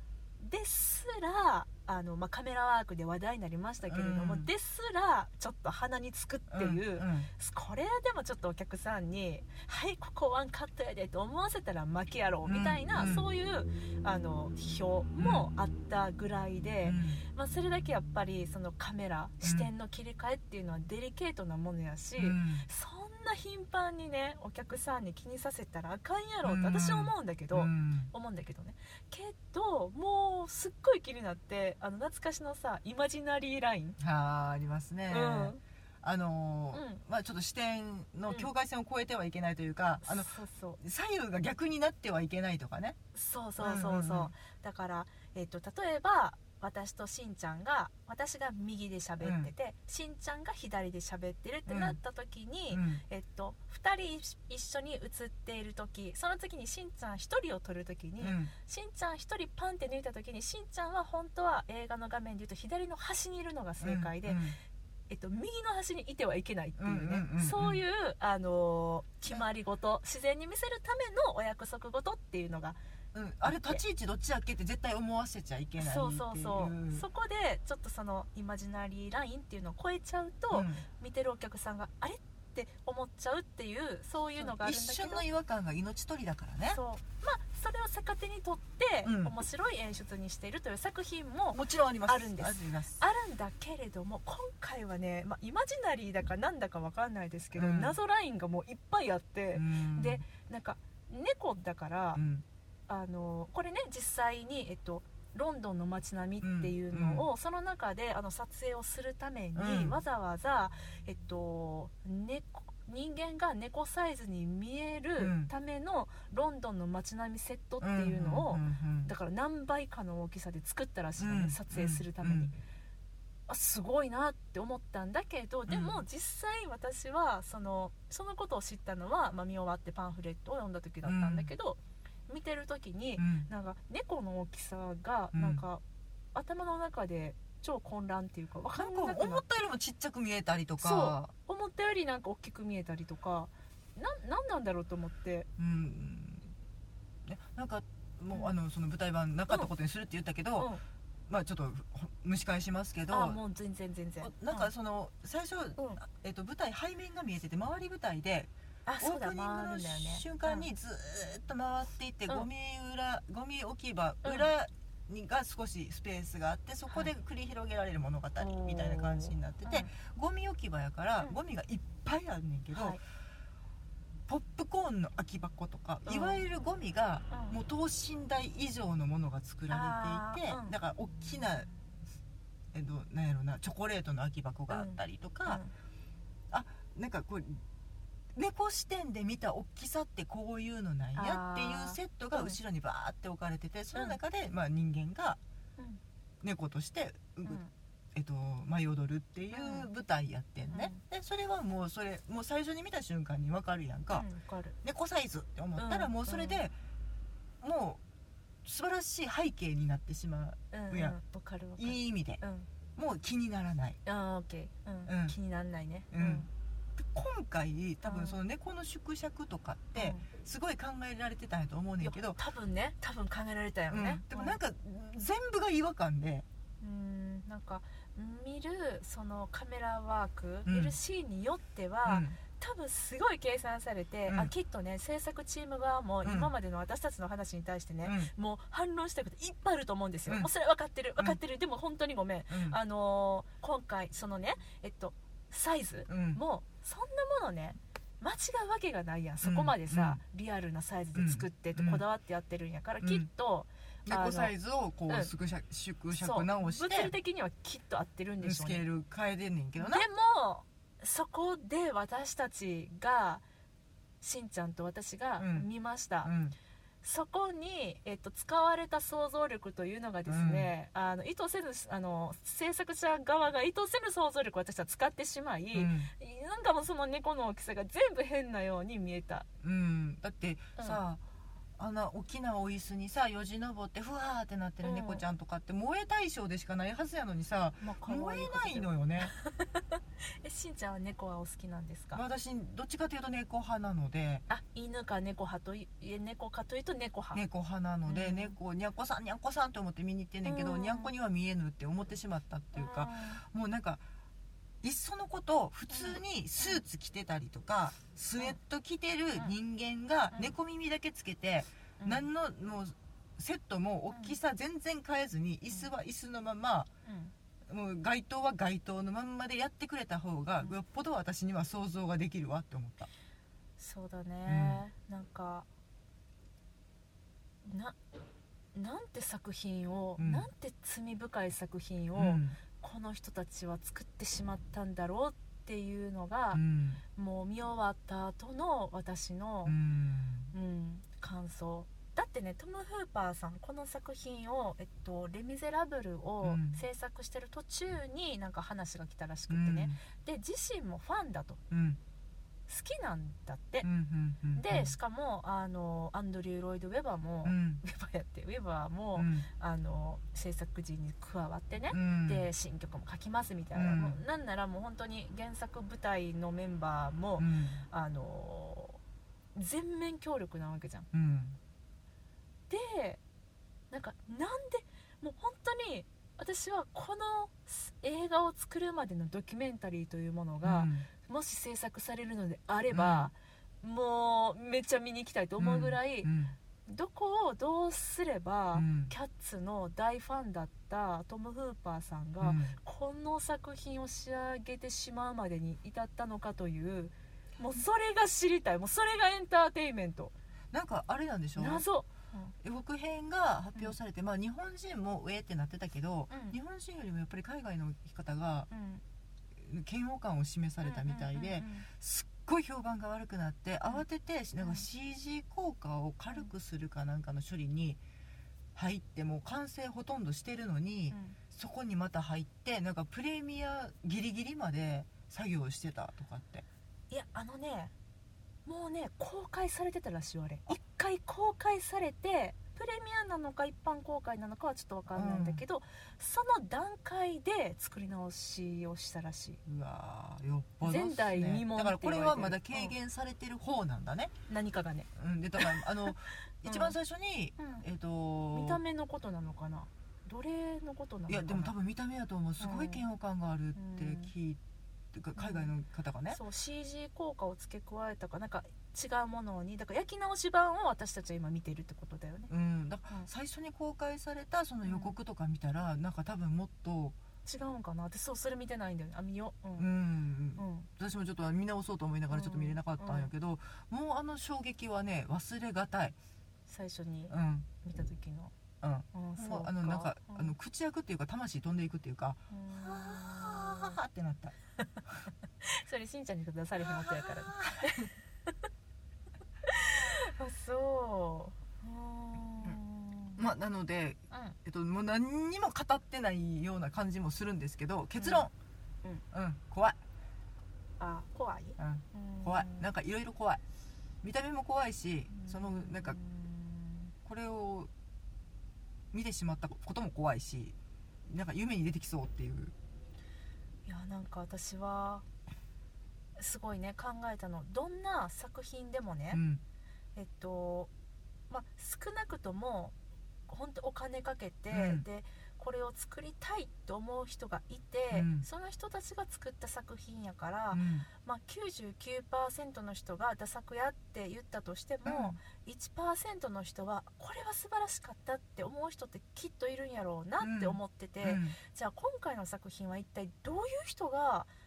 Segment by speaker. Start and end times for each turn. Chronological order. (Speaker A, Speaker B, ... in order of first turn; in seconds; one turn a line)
Speaker A: 0.4-34.0
Speaker B: 3.9-4.5
Speaker B: 6.5-7.3
Speaker B: 12.4-13.2
Speaker B: 15.2-15.5
Speaker B: 16.8-17.2
Speaker B: 19.4-19.7
Speaker B: 22.2-22.7
Speaker B: 26.4-28.1
Speaker B: 34.0-43.0
Speaker A: 35.1-35.6
Speaker A: 36.7-37.0
Speaker A: 40.0-40.8
Speaker A: 43.1-64.5
Speaker B: 43.6-44.3
Speaker B: 49.2-49.5
Speaker B: 51.7-52.0
Speaker B: 52.7-53.0
Speaker B: 58.2-58.5
Speaker B: 63.8-64.6
Speaker A: 65.1-72.8
Speaker B: 66.8-67.8
Speaker B: 73.1-77.0
Speaker A: 73.4-73.8
Speaker A: 75.8-85.2
Speaker B: 80.5-80.8
Speaker B: 84.4-86.8
Speaker A: 86.7-102.2
Speaker B: 89.0-89.3
Speaker B: 91.5-93.0
Speaker B: 97.5-97.9
Speaker B: 99.5-100.2
Speaker B: 102.1-102.4
Speaker A: 102.9-122.5
Speaker B: 106.4-107.2
Speaker B: 109.5-110.0
Speaker B: 115.2-115.5
Speaker B: 117.8-119.1
Speaker B: 121.2-122.5
Speaker A: 123.5-135.8
Speaker B: 125.7-126.0
Speaker B: 131.0-131.5
Speaker B: 133.2-133.5
Speaker B: 135.3-135.6
Speaker A: 136.3-139.4
Speaker B: 138.8-141.3
Speaker A: 140.8-145.5
Speaker B: 145.6-146.5
Speaker B: 147.2-150.7
Speaker A: 150.6-150.8
Speaker B: 151.3-153.4
Speaker A: 153.1-154.7
Speaker B: 154.2-173.0
Speaker A: 158.8-160.7
Speaker A: 164.2-164.5
Speaker A: 168.4-169.9
Speaker A: 172.7-173.0
Speaker B: 174.3-181.7
Speaker A: 176.1-176.4
Speaker A: 177.3-177.6
Speaker A: 179.7-180.7
Speaker B: 182.7-185.6
Speaker A: 184.7-185.7
Speaker B: 186.5-187.6
Speaker B: 188.3-195.4
Speaker A: 191.2-192.6
Speaker B: 196.4-197.6
Speaker A: 197.4-197.7
Speaker B: 198.1-204.3
Speaker A: 199.5-199.9
Speaker A: 200.7-201.0
Speaker A: 204.1-204.8
Speaker B: 204.8-206.7
Speaker A: 205.8-206.6
Speaker B: 207.6-208.0
Speaker B: 208.6-211.2
Speaker A: 210.7-212.7
Speaker B: 211.8-212.4
Speaker B: 212.9-214.0
Speaker A: 214.1-216.5
Speaker B: 215.1-215.3
Speaker B: 216.1-222.4
Speaker A: 218.0-218.4
Speaker A: 219.9-220.3
Speaker A: 222.0-224.6
Speaker B: 223.9-226.4
Speaker A: 226.8-254.5
Speaker B: 230.7-230.9
Speaker B: 232.1-232.4
Speaker B: 236.2-236.5
Speaker B: 238.0-238.3
Speaker B: 242.5-242.8
Speaker B: 246.1-246.4
Speaker B: 249.4-250.2
Speaker B: 251.2-252.0
Speaker B: 253.0-253.3
Speaker B: 254.1-257.1
Speaker A: 256.1-258.8
Speaker B: 258.4-260.1
Speaker A: 259.8-263.4
Speaker A: 264.2-266.3
Speaker B: 265.4-265.7
Speaker B: 266.2-266.6
Speaker A: 267.0-279.5
Speaker B: 270.3-270.7
Speaker B: 275.7-276.1
Speaker B: 279.6-281.2
Speaker B: 281.8-289.3
Speaker A: 284.8-285.2
Speaker A: 287.8-292.2
Speaker B: 292.1-294.4
Speaker A: 294.5-297.4
Speaker B: 297.3-304.0
Speaker A: 298.1-298.6
Speaker A: 300.4-301.1
Speaker A: 302.7-303.4
Speaker B: 304.8-316.9
Speaker A: 305.9-306.8
Speaker A: 312.0-312.3
Speaker A: 314.1-314.4
Speaker A: 317.0-317.3
Speaker B: 317.7-323.1
Speaker A: 323.8-325.7
Speaker B: 324.5-324.8
Speaker A: 327.6-328.0
Speaker A: 328.7-336.6
Speaker B: 330.2-330.5
Speaker B: 332.1-332.6
Speaker B: 336.5-337.0
Speaker A: 337.1-339.8
Speaker B: 339.6-340.5
Speaker A: 340.5-351.6
Speaker B: 346.4-346.8
Speaker B: 349.5-350.0
Speaker B: 351.7-352.0
Speaker A: 352.7-353.9
Speaker B: 353.8-354.9
Speaker A: 354.5-369.0
Speaker B: 357.4-357.8
Speaker B: 359.1-359.5
Speaker B: 361.9-362.5
Speaker B: 363.7-364.2
Speaker B: 367.4-367.8
Speaker A: 369.5-371.1
Speaker B: 371.1-371.6
Speaker A: 372.7-373.2
Speaker A: 373.9-386.3
Speaker B: 380.6-381.1
Speaker B: 382.9-383.3
Speaker B: 385.6-386.6
Speaker A: 386.9-400.3
Speaker B: 388.7-389.1
Speaker B: 392.4-392.8
Speaker B: 400.7-401.8
Speaker A: 401.6-402.5
Speaker B: 402.6-408.7
Speaker A: 406.3-406.6
Speaker A: 408.7-409.0
Speaker B: 409.6-418.0
Speaker A: 410.8-411.9
Speaker A: 414.6-414.9
Speaker B: 418.7-426.6
Speaker A: 421.1-421.4
Speaker A: 427.1-427.9
Speaker A: 428.6-439.6
Speaker B: 435.1-435.6
Speaker B: 439.6-444.3
Speaker A: 440.8-442.9
Speaker A: 444.5-446.9
Speaker B: 445.1-448.8
Speaker A: 447.6-447.8
Speaker A: 448.5-451.7
Speaker B: 451.3-454.6
Speaker A: 452.6-453.0
Speaker A: 453.7-454.3
Speaker B: 455.1-456.4
Speaker A: 455.4-455.7
Speaker A: 456.3-462.5
Speaker B: 462.5-467.2
Speaker A: 464.8-465.1
Speaker A: 467.4-469.9
Speaker B: 469.8-476.1
Speaker A: 470.6-470.9
Speaker A: 472.3-473.3
Speaker A: 476.7-478.5
Speaker B: 477.3-477.7
Speaker B: 478.8-484.5
Speaker A: 479.1-480.5
Speaker A: 482.5-484.0
Speaker A: 485.6-488.5
Speaker B: 486.8-488.1
Speaker A: 489.6-493.4
Speaker B: 493.4-498.5
Speaker A: 494.3-494.6
Speaker A: 498.2-498.5
Speaker B: 499.3-500.0
Speaker A: 501.0-502.9
Speaker B: 501.8-503.6
Speaker B: 504.2-506.2
Speaker A: 505.3-507.1
Speaker B: 507.2-507.9
Speaker B: 509.1-512.7
Speaker A: 513.9-515.2
Speaker A: 516.4-519.4
Speaker B: 519.3-519.6
Speaker A: 520.1-520.9
Speaker A: 521.5-522.9
Speaker A: 523.5-544.5
Speaker B: 524.7-525.0
Speaker B: 528.1-528.5
Speaker B: 530.7-531.1
Speaker B: 535.0-535.4
Speaker B: 540.4-541.5